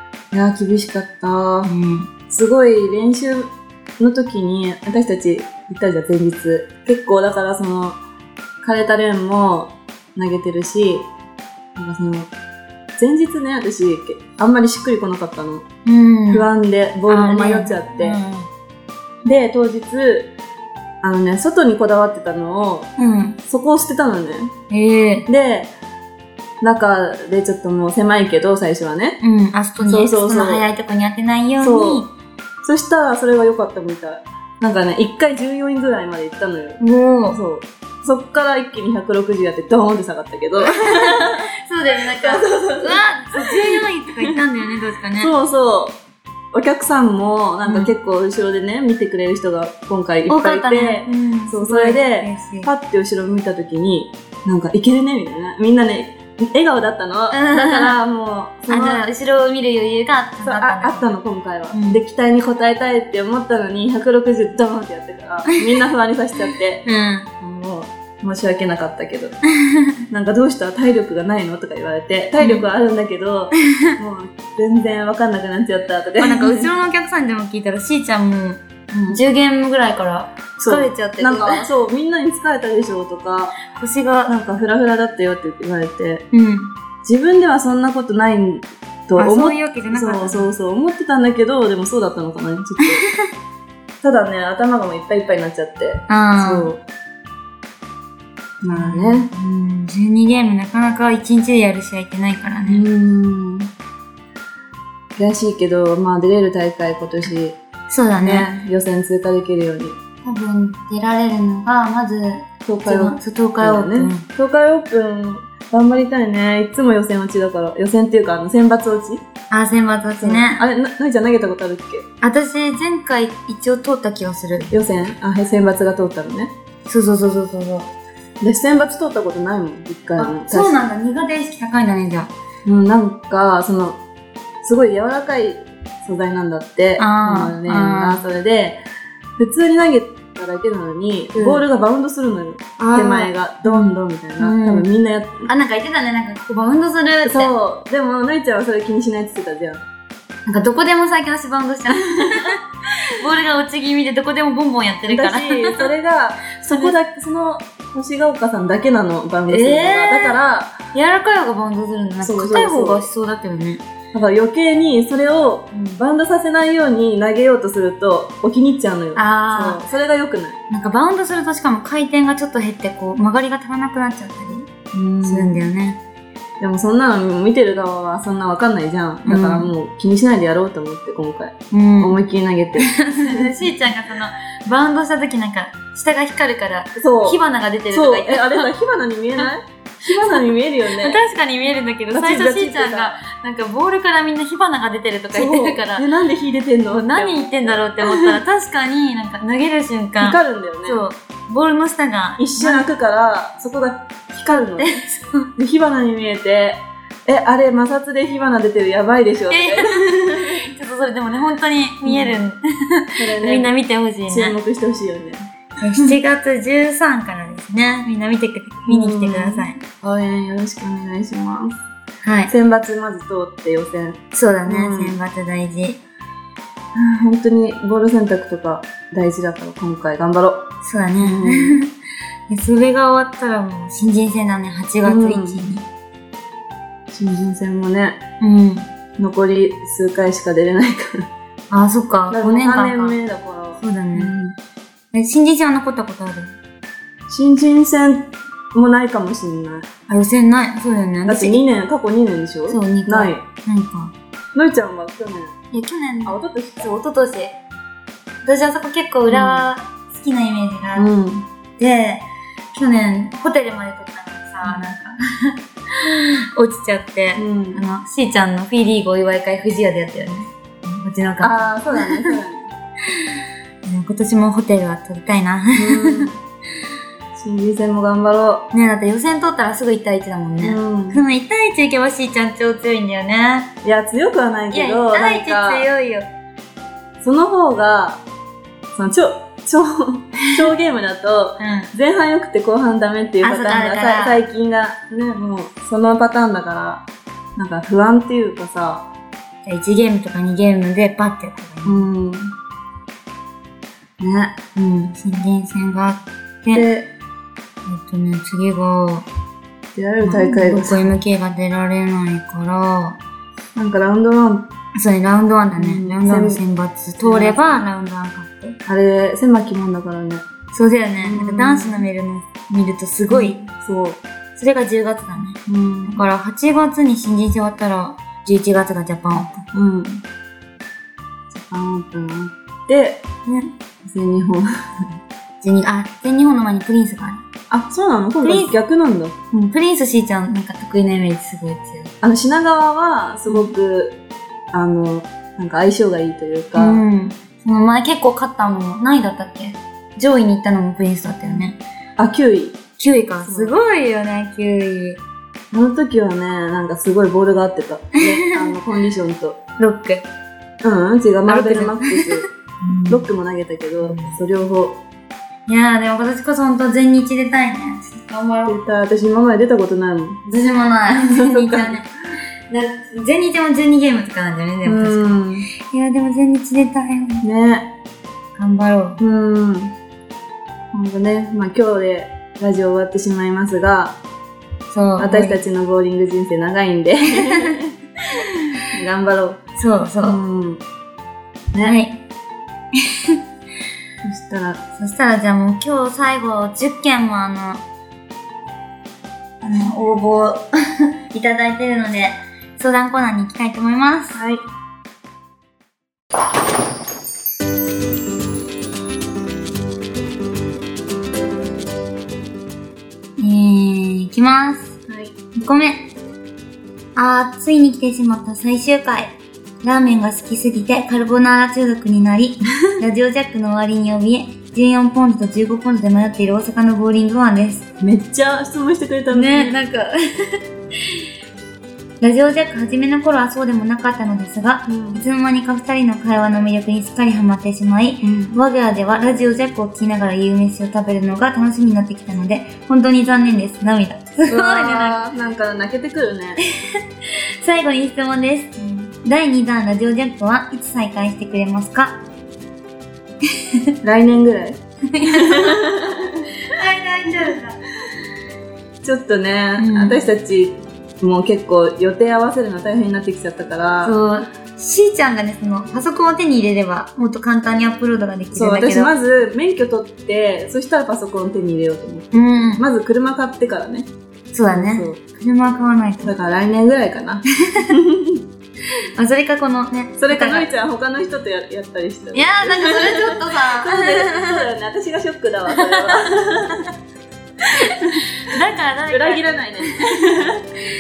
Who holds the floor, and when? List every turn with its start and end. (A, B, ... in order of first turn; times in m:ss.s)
0:00.3-0:01.7 A
0:01.7-0:02.1 B
0:02.3-0:08.0 A
0:08.6-0:11.1 A
0:11.8-0:12.3 A
0:13.0-0:15.7 A
0:15.8-0:16.5 B
0:16.3-0:18.2 A
0:17.1-0:18.5 B
0:19.2-0:20.3 A
0:21.0-0:22.9 A
0:23.0-0:23.4 B
0:23.5-0:24.5 A
0:24.7-0:25.3 B
0:25.3-0:25.7 A
0:26.6-0:29.2 A
0:29.2-0:32.1 B
0:29.8-0:30.6 A
0:31.6-0:32.1 A
0:32.6-0:41.5 A
0:36.8-0:37.4 B
0:40.6-0:45.3 B
0:42.2-0:44.4 A
0:45.2-0:46.0 A
0:46.5-0:59.0 A
0:47.6-0:47.9 B
0:50.3-0:52.7 B
0:57.3-0:58.0 B
0:58.7-1:01.1 B
1:00.4-1:06.8 A
1:01.7-1:02.0 B
1:06.8-1:07.3 B
1:07.4-1:09.4 A
1:09.6-1:10.0 B
1:10.1-1:16.7 A
1:12.4-1:12.7 B
1:16.2-1:21.7 B
1:18.9-1:19.2 A
1:20.6-1:23.6 A
1:23.7-1:24.3 B
1:24.3-1:26.3 A
1:26.3-1:26.7 B
1:27.0-1:33.0 A
1:29.2-1:30.5 B
1:32.8-1:33.3 B
1:34.0-1:36.8 A
1:36.1-1:36.7 B
1:38.6-1:39.3 A
1:38.7-1:42.8 B
1:42.7-1:43.7 A
1:45.2-1:47.6 A
1:47.9-1:48.5 B
1:48.2-1:50.0 A
1:50.2-1:54.2 B
1:52.7-1:59.2 A
1:59.5-2:00.6 B
2:00.2-2:02.1 A
2:02.2-2:04.7 B
2:04.7-2:06.5 A
2:06.9-2:07.9 B
2:08.4-2:10.8 A
2:10.2-2:12.3 B
2:12.6-2:14.0 A
2:14.6-2:18.8 A
2:17.0-2:18.2 B
2:19.4-2:25.5 A
2:21.4-2:21.6 B
2:22.8-2:24.9 B
2:25.5-2:27.5 B
2:27.2-2:29.8 A
2:30.5-2:35.9 B
2:32.0-2:32.5 A
2:35.1-2:40.8 A
2:39.5-2:40.4 B
2:40.9-2:43.8 B
2:42.2-2:43.1 A
2:44.1-2:50.6 A
2:45.7-2:46.0 B
2:49.2-2:49.8 B
2:50.7-2:56.0 B
2:54.9-2:55.6 A
2:56.6-3:03.7 A
2:59.3-2:59.7 B
3:01.7-3:02.2 B
3:02.8-3:08.7 B
3:07.0-3:07.4 A
3:07.9-3:11.2 A
3:10.9-3:16.1 B
3:12.1-3:13.2 A
3:15.3-3:18.4 A
3:16.9-3:22.9 B
3:20.2-3:21.0 A
3:22.4-3:25.1 A
3:24.8-3:25.5 B
3:25.6-3:30.6 A
3:29.5-3:34.6 B
3:32.1-3:32.4 A
3:33.2-3:33.7 A
3:34.3-3:36.1 A
3:35.8-3:39.8 B
3:38.9-3:41.8 A
3:42.2-3:42.5 B
3:42.5-3:45.2 A
3:44.3-3:46.0 B
3:47.0-3:50.7 A
3:50.8-3:51.9 B
3:51.2-3:51.8 A
3:52.5-3:55.9 B
3:55.0-3:55.7 A
3:57.1-3:58.2 A
3:58.4-3:58.9 B
3:59.2-4:01.3 A
4:01.7-4:03.2 B
4:02.3-4:04.6 A
4:03.8-4:04.3 B
4:05.1-4:06.6 B
4:07.3-4:09.9 A
4:10.1-4:11.6 B
4:11.3-4:13.4 A
4:12.7-4:14.1 B
4:14.5-4:15.6 A
4:15.7-4:17.6 B
4:16.2-4:16.9 A
4:18.4-4:21.1 B
4:19.3-4:19.7 A
4:21.0-4:21.5 A
4:21.8-4:32.4 B
4:24.6-4:24.9 A
4:27.4-4:27.8 A
4:31.4-4:32.7 A
4:33.1-4:33.3 B
4:33.8-4:36.3 B
4:35.7-4:36.4 A
4:37.4-4:38.7 A
4:38.7-4:43.7 B
4:40.6-4:41.2 A
4:43.8-4:45.9 A
4:44.7-4:46.3 B
4:47.2-4:48.2 A
4:49.0-4:57.0 A
4:51.6-4:51.9 B
4:53.4-4:54.4 B
4:57.6-4:59.1 A
4:59.6-5:02.0 B
5:01.8-5:02.6 A
5:04.2-5:04.6 A
5:04.8-5:06.9 B
5:06.7-5:07.1 A
5:07.9-5:09.3 B
5:10.0-5:11.1 A
5:10.2-5:13.2 B
5:13.8-5:14.7 A
5:14.9-5:18.8 B
5:15.8-5:16.6 A
5:17.2-5:17.8 A
5:18.9-5:20.5 A
5:20.7-5:23.6 B
5:21.2-5:22.0 A
5:23.3-5:24.2 A
5:24.6-5:29.6 B
5:25.7-5:26.2 A
5:29.7-5:30.2 A
5:31.5-5:33.3 A
5:33.5-5:33.7 B
5:34.0-5:35.1 A
5:35.6-5:37.4 B
5:37.7-5:39.4 A
5:38.4-5:38.7 B
5:39.5-5:42.1 B
5:42.2-5:44.2 A
5:44.7-5:47.0 A
5:46.8-5:51.8 B
5:52.2-5:52.8 A
5:53.0-5:55.2 B
5:53.4-5:53.8 A
5:55.7-5:59.6 A
5:58.2-5:58.8 B
5:59.8-6:00.3 B
6:00.8-6:05.0 A
6:01.5-6:03.2 B
6:04.0-6:04.4 B
6:05.7-6:08.8 B
6:08.7-6:12.0 A
6:10.5-6:12.1 B
6:12.7-6:17.4 B
6:14.8-6:15.7 A
6:17.4-6:17.9 A
6:18.6-6:19.2 B
6:19.2-6:19.9 A
6:20.9-6:24.2 A
6:24.9-6:25.6 B
6:25.2-6:29.6 A
6:27.4-6:27.8 B
6:29.8-6:30.4 B
6:30.2-6:30.8 A
6:31.8-6:32.2 B
6:33.0-6:33.4 B
6:34.2-6:34.8 A
6:35.0-6:37.8 B
6:39.6-6:44.4 B
6:44.3-6:44.6 A
6:53.4-6:55.0 B
6:55.1-6:55.3 A
6:55.6-6:56.1 B
6:57.2-7:07.9 B
7:08.0-7:09.8 A
7:09.3-7:11.2 B
7:12.2-7:25.2 B
7:14.9-7:15.2 A
7:18.2-7:18.5 A
7:24.5-7:26.6 A
7:26.7-7:32.2 B
7:34.0-7:36.5 A
7:35.1-7:36.1 B
7:36.6-7:37.8 B
7:39.0-7:44.2 A
7:39.8-7:40.3 B
7:44.0-7:49.1 B
7:48.6-7:54.1 A
7:52.3-7:52.8 B
7:54.5-7:56.3 B
7:54.7-7:55.2 A
7:56.2-7:58.4 A
7:57.6-7:58.0 B
7:59.2-8:00.7 B
8:00.2-8:06.9 A
8:02.3-8:04.7 B
8:05.7-8:06.7 B
8:07.7-8:09.4 B
8:07.8-8:08.5 A
8:09.1-8:10.7 A